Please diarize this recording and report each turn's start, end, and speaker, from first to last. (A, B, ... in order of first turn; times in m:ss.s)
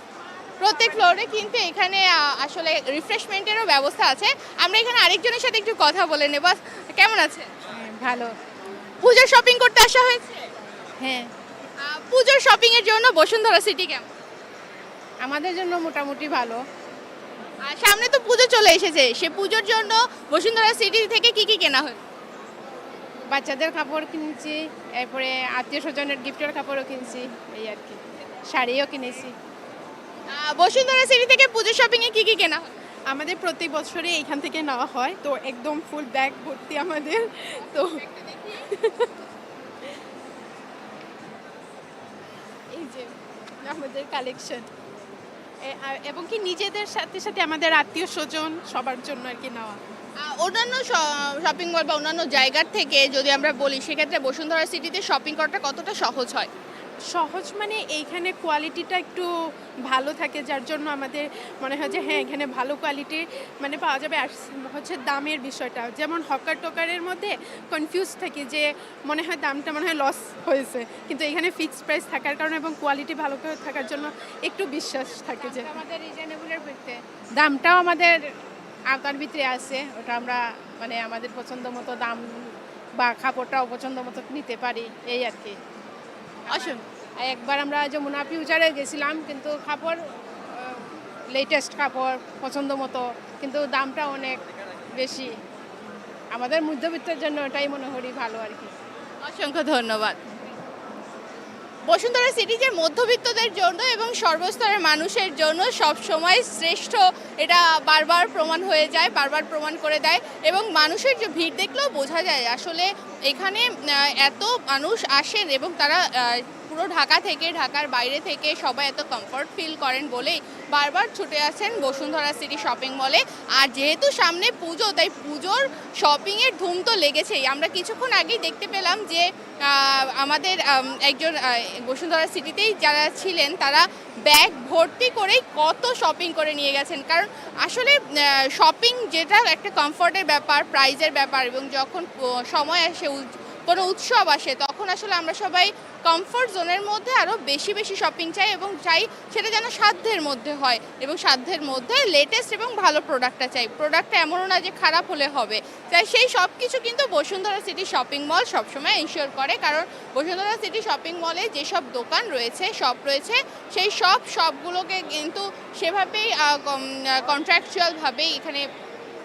0:00.6-0:07.5 A
0:07.7-0:08.3 B
0:09.0-0:10.5 A
0:11.0-0:11.2 B
0:11.8-0:14.1 A
0:15.2-0:16.6 B
0:17.6-0:22.0 A
0:23.3-0:28.0 B
0:28.5-0:29.3 B
0:30.3-0:32.7 A
0:33.1-0:37.9 C
0:38.0-0:38.5 A
0:38.6-0:39.1 C
0:42.7-0:43.1 C
0:43.6-0:44.7 C
0:45.6-0:49.8 C
0:50.2-0:56.5 A
0:57.1-0:59.3 C
0:59.9-1:15.7 C
1:15.2-1:18.2 B
1:18.9-1:25.6 B
1:26.5-1:26.8 A
1:26.6-1:30.0 B
1:30.6-1:34.4 B
1:34.9-1:35.4 B
1:36.3-1:38.7 B
1:39.2-1:40.2 A
1:41.9-2:48.6 A